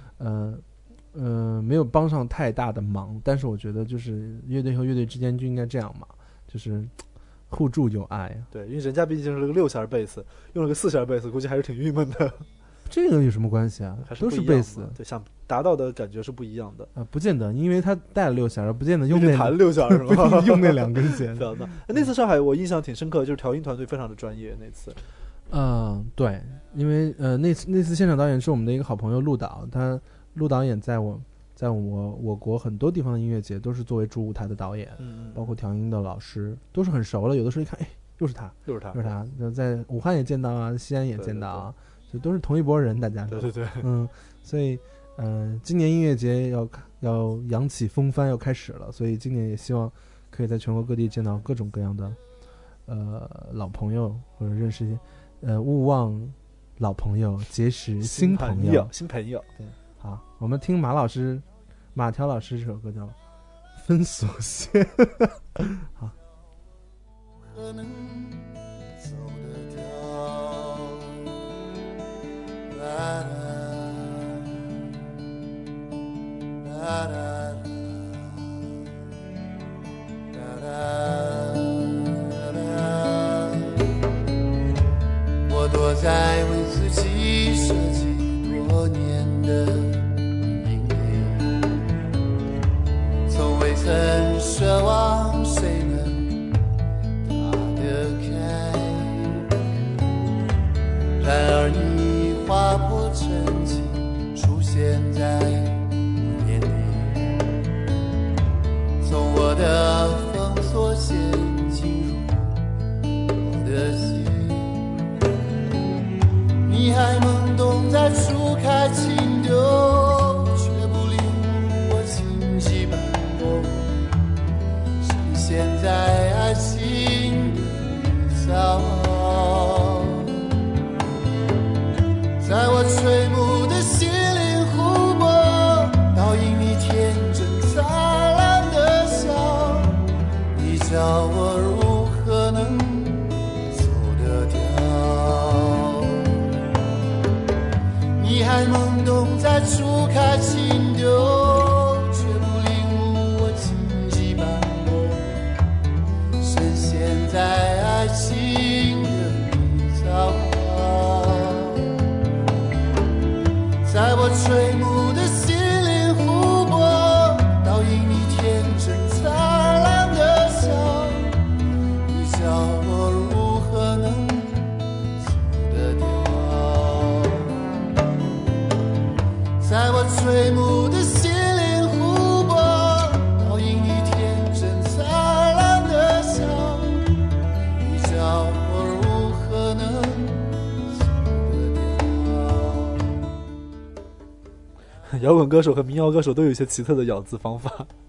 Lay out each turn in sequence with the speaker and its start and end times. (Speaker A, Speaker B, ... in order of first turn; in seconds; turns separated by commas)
Speaker A: 0.2-6.9, Speaker A: 7.5-8.5, Speaker B: 8.5-12.4, Speaker A: 12.9-14.9, Speaker B: 14.0-16.9, Speaker A: 16.9-21.5, Speaker B: 19.1-25.0, Speaker A: 25.5-52.2, Speaker B: 35.0-35.5, Speaker B: 38.7-39.1, Speaker B: 41.2-41.7, Speaker B: 43.3-43.9, Speaker A: 52.9-58.9, Speaker B: 58.0-59.5, Speaker A: 59.6-63.2, Speaker A: 63.8-66.1, Speaker C: 67.4-71.4, Speaker C: 72.7-74.6, Speaker C: 76.6-78.6, Speaker C: 80.3-84.0, Speaker C: 85.5-91.8, Speaker C: 93.3-96.5, Speaker C: 97.2-99.5, Speaker C: 101.2-107.6, Speaker C: 109.0-112.6, Speaker C: 113.3-114.8, Speaker C: 115.6-116.0, Speaker C: 116.6-124.0, Speaker C: 125.0-130.6, Speaker C: 132.4-146.7, Speaker C: 148.2-155.5, Speaker C: 156.4-162.1, Speaker C: 163.8-171.5, Speaker C: 172.1-178.4, Speaker C: 179.6-187.1, Speaker C: 187.8-193.2, Speaker B: 195.1-197.9